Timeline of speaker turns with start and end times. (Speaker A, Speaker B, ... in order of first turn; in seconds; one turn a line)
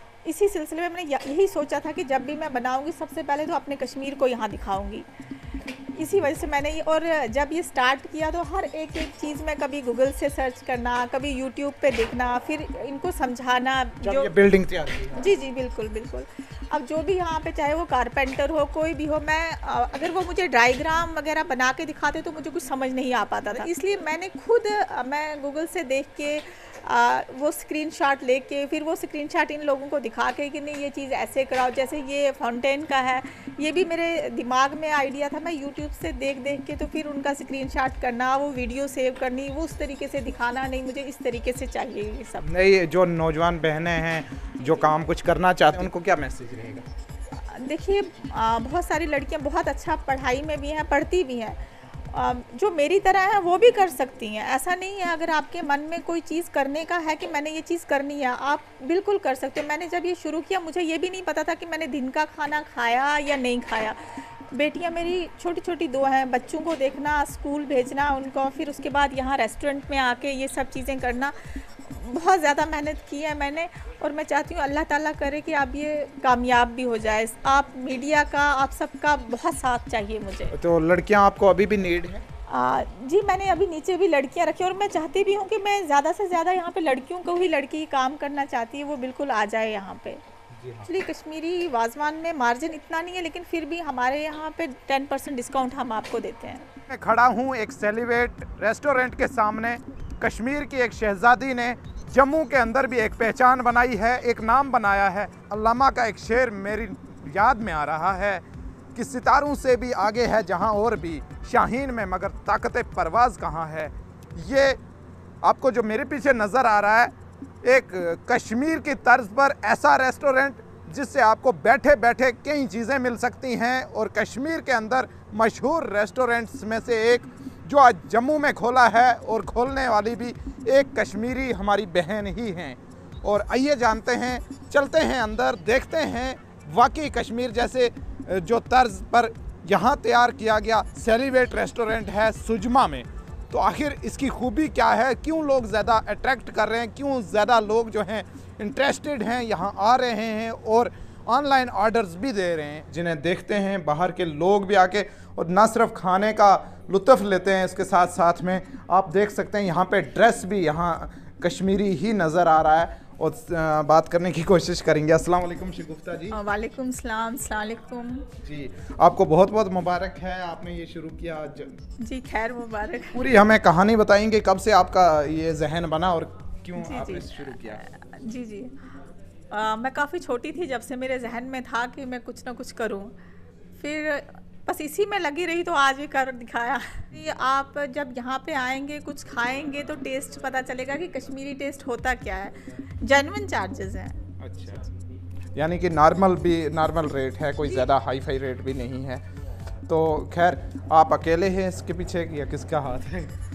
Speaker A: 0.2-5.1
Speaker A: 5.8-14.3
Speaker B: 14.0-15.3
Speaker A: 15.2-42.5
Speaker B: 42.4-46.9
Speaker A: 47.3-51.6
Speaker A: 52.1-80.5
Speaker B: 80.5-82.2
Speaker A: 82.5-90.2
Speaker B: 90.6-90.9
Speaker A: 90.9-96.7
Speaker B: 96.9-108.4
Speaker B: 109.0-114.8
Speaker B: 115.4-117.1
Speaker B: 117.6-166.4
Speaker A: 166.3-168.3
Speaker B: 168.4-171.8
Speaker A: 172.0-173.2
Speaker B: 173.1-177.8
Speaker A: 176.8-178.8
Speaker A: 179.5-183.2
Speaker A: 183.8-194.2
Speaker B: 194.4-194.9
Speaker B: 195.6-199.2
Speaker B: 199.9-203.3